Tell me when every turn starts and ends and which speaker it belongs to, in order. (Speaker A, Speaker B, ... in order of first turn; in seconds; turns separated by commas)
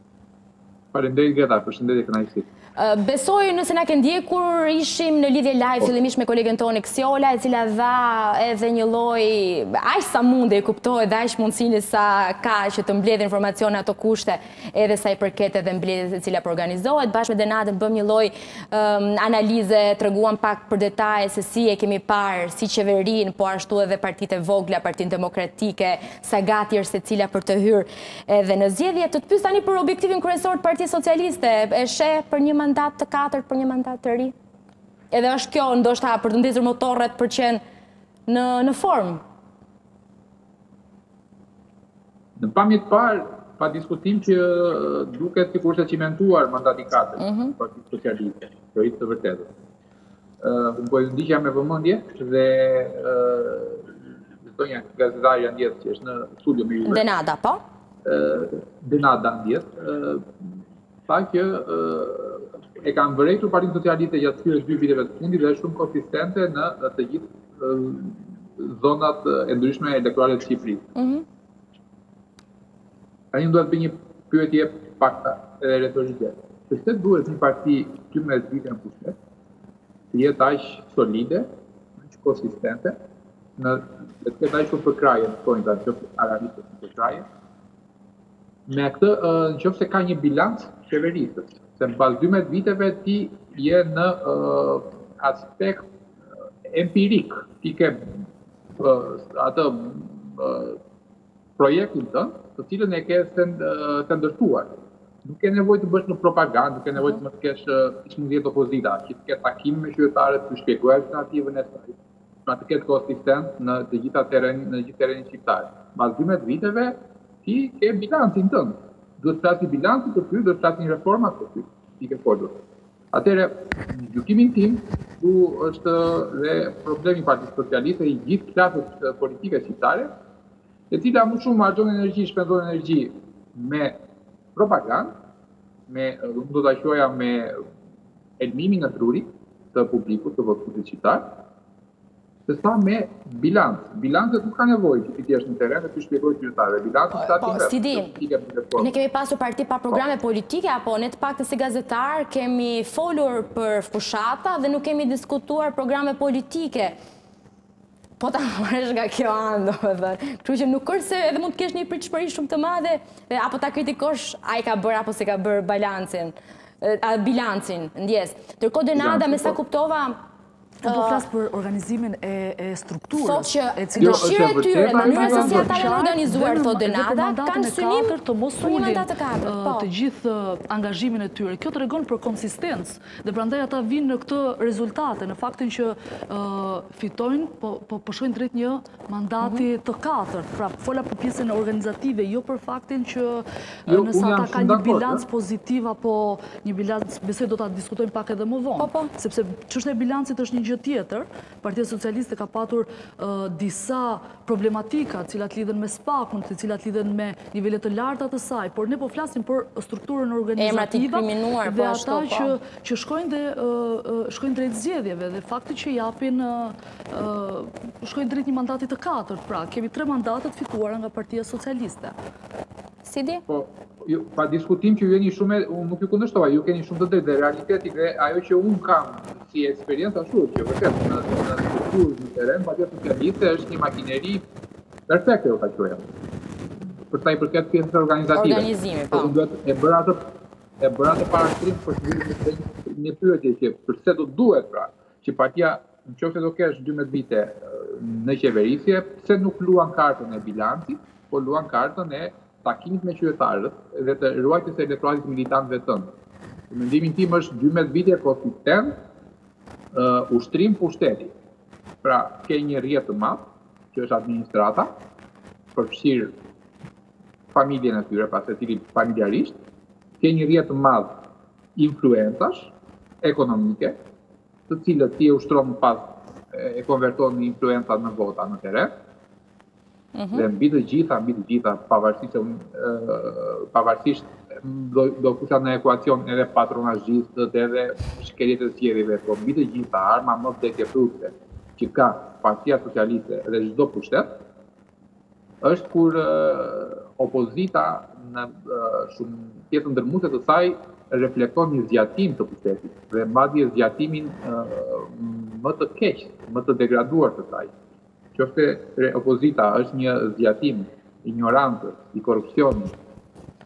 Speaker A: 0.9-2.5, Speaker B: 2.8-34.3, Speaker B: 35.1-37.6, Speaker B: 38.3-39.2, Speaker A: 42.4-49.5, Speaker B: 47.2-47.5, Speaker A: 50.4-57.0, Speaker B: 56.8-57.6, Speaker A: 58.0-60.5, Speaker A: 61.1-70.9, Speaker B: 71.0-71.2, Speaker A: 73.3-79.1, Speaker A: 80.1-81.5, Speaker A: 82.1-82.9, Speaker A: 83.6-87.2, Speaker A: 88.7-95.8, Speaker A: 96.7-98.2, Speaker A: 98.8-100.8, Speaker A: 101.6-104.7, Speaker A: 105.2-111.9, Speaker A: 112.5-122.5, Speaker A: 123.1-130.1, Speaker A: 130.9-133.9, Speaker A: 134.6-135.1, Speaker A: 135.9-137.6, Speaker A: 138.4-141.2, Speaker A: 142.5-148.9, Speaker B: 147.1-148.2, Speaker B: 148.8-156.9, Speaker B: 158.2-170.2, Speaker A: 168.9-169.6, Speaker C: 170.8-222.2, Speaker B: 170.8-171.3, Speaker B: 173.1-179.9, Speaker A: 174.0-175.9, Speaker B: 189.4-189.7, Speaker A: 193.9-195.2, Speaker B: 198.8-199.1, Speaker B: 210.6-212.6, Speaker B: 223.0-223.4, Speaker A: 223.5-234.4, Speaker A: 235.1-236.1, Speaker A: 237.1-240.2, Speaker B: 238.3-239.4, Speaker A: 240.8-256.1, Speaker A: 256.7-258.9, Speaker A: 259.9-261.3, Speaker A: 262.0-264.9, Speaker A: 265.8-266.3, Speaker A: 267.5-269.6, Speaker A: 270.2-271.1, Speaker A: 271.8-272.7, Speaker A: 273.2-273.9, Speaker A: 274.7-278.9, Speaker B: 280.1-280.5, Speaker A: 280.3-294.3, Speaker A: 295.6-307.7, Speaker A: 308.3-312.9